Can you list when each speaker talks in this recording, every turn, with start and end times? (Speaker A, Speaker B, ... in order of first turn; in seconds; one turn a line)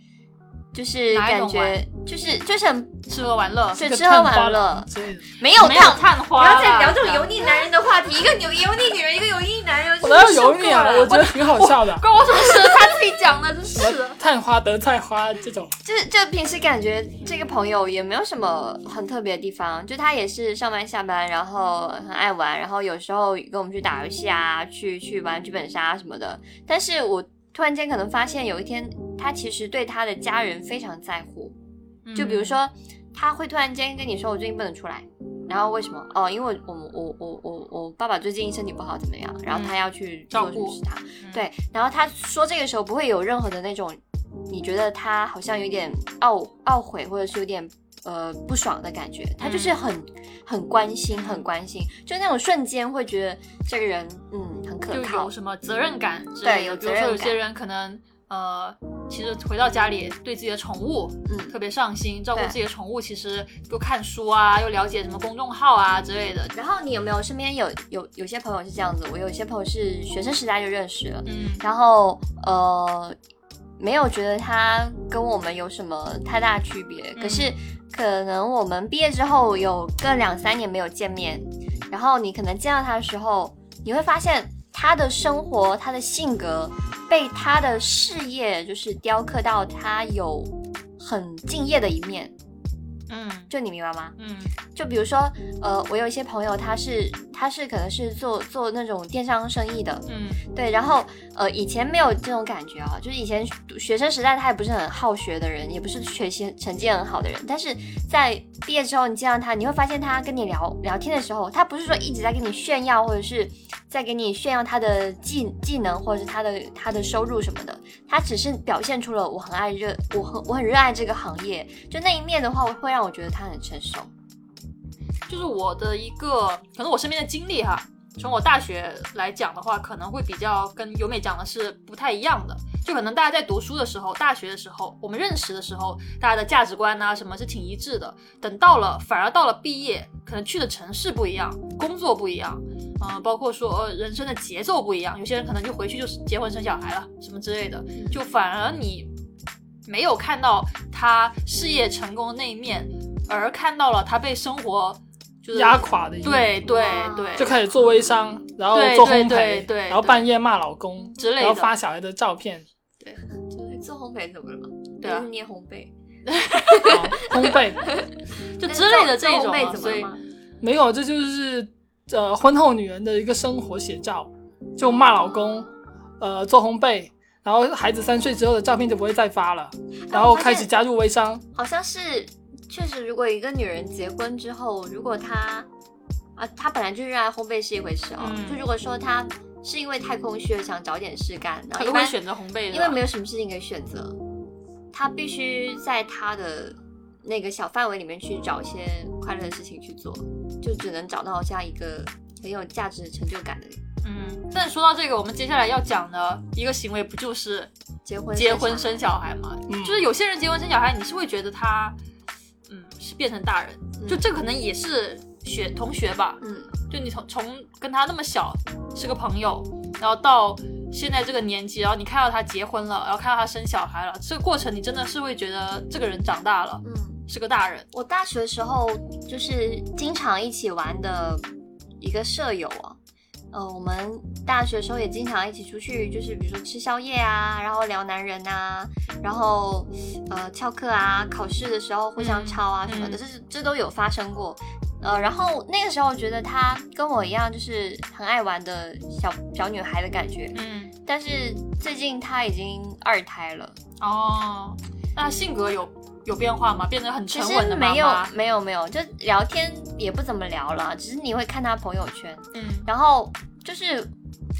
Speaker A: 0.7-3.0
Speaker B: 1.1-1.8
Speaker B: 3.1-3.8
Speaker A: 3.7-10.7
Speaker C: 3.8-5.2
Speaker B: 5.5-7.3
Speaker C: 10.0-12.0
Speaker B: 10.2-14.2
Speaker A: 12.4-12.8
Speaker C: 13.8-15.7
Speaker A: 15.8-31.6
Speaker B: 32.0-32.6
Speaker A: 32.1-55.3
Speaker B: 39.5-39.8
Speaker B: 40.3-41.4
Speaker B: 49.4-49.8
Speaker B: 51.1-51.4
Speaker B: 54.9-66.5
Speaker A: 56.4-57.4
Speaker A: 61.2-61.5
Speaker A: 66.5-73.2
Speaker B: 71.2-71.6
Speaker A: 73.8-92.3
Speaker B: 77.2-77.5
Speaker B: 93.1-93.5
Speaker A: 93.5-94.2
Speaker B: 94.2-94.5
Speaker A: 94.7-124.1
Speaker B: 100.1-100.4
Speaker B: 125.3-149.1
Speaker B: 149.8-157.5
Speaker C: 155.5-156.5
Speaker A: 156.7-157.6
Speaker C: 157.4-162.6
Speaker B: 158.7-160.3
Speaker B: 161.2-161.7
Speaker A: 163.5-165.9
Speaker B: 165.0-165.3
Speaker B: 166.3-166.9
Speaker A: 166.5-170.2
Speaker C: 166.8-167.9
Speaker B: 168.6-170.1
Speaker C: 170.6-181.4
Speaker A: 175.2-175.7
Speaker A: 180.1-180.7
Speaker A: 181.5-185.7
Speaker A: 186.3-192.2
Speaker B: 188.2-188.6
Speaker B: 191.7-193.0
Speaker A: 192.7-194.2
Speaker A: 194.9-203.8
Speaker B: 204.0-207.7
Speaker A: 208.0-209.2
Speaker B: 208.3-212.0
Speaker C: 209.7-210.1
Speaker B: 212.7-227.9
Speaker A: 214.0-214.2
Speaker A: 216.4-216.7
Speaker A: 226.8-227.2
Speaker A: 227.9-231.4
Speaker A: 232.0-233.0
Speaker A: 233.5-253.8
Speaker B: 242.2-243.2
Speaker B: 250.5-250.9
Speaker B: 254.0-258.3
Speaker A: 257.3-264.1
Speaker B: 262.5-262.9